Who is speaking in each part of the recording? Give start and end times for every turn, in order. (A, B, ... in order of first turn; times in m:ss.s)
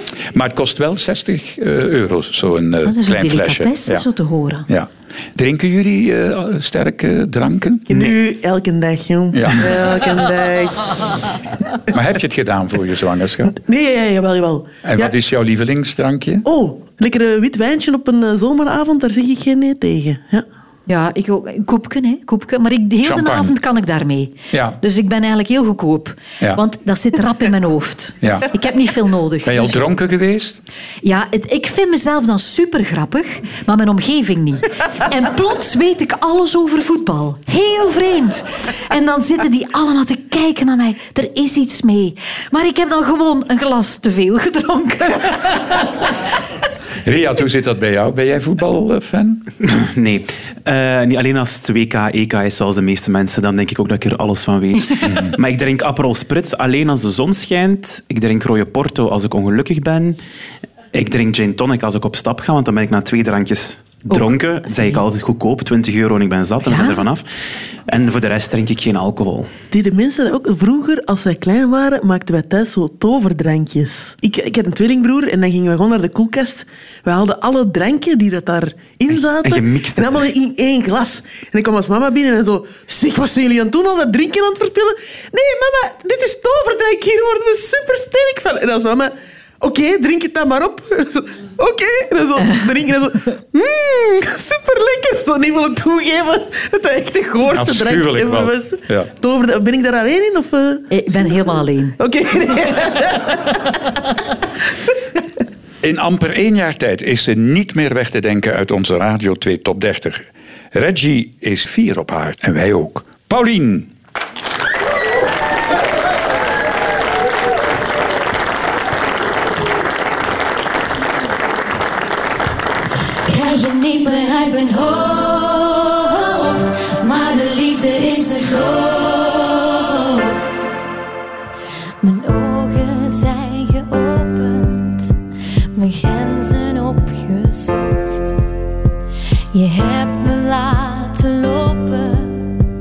0:00.3-0:04.0 A
0:02.8-0:04.7 B
0:04.7-0:08.1 A
0:07.9-0:11.2 C
0:09.3-0:09.8 A
0:11.9-0:13.6 A
0:13.5-0:15.1 C
0:14.8-0:16.4 A
0:16.4-0:20.4 C
0:20.9-0:29.8 B
0:23.0-0:23.5 A
0:24.5-0:24.8 A
0:28.2-0:28.5 A
0:29.4-0:30.6 A
0:31.0-0:45.8 B
0:47.0-0:49.4 A
0:49.6-1:00.2 D
1:00.9-1:07.2 D
1:04.1-1:05.0 B
1:06.7-1:07.0 B
1:07.9-1:09.5 D
1:09.7-1:43.9 C
1:19.4-1:20.3 D
1:37.5-1:39.1 A
1:40.9-1:42.0 B
1:45.8-1:53.9 A
2:03.2-2:10.6 E
2:12.0-2:15.1 E
2:15.7-2:18.4 E
2:19.5-2:22.6 E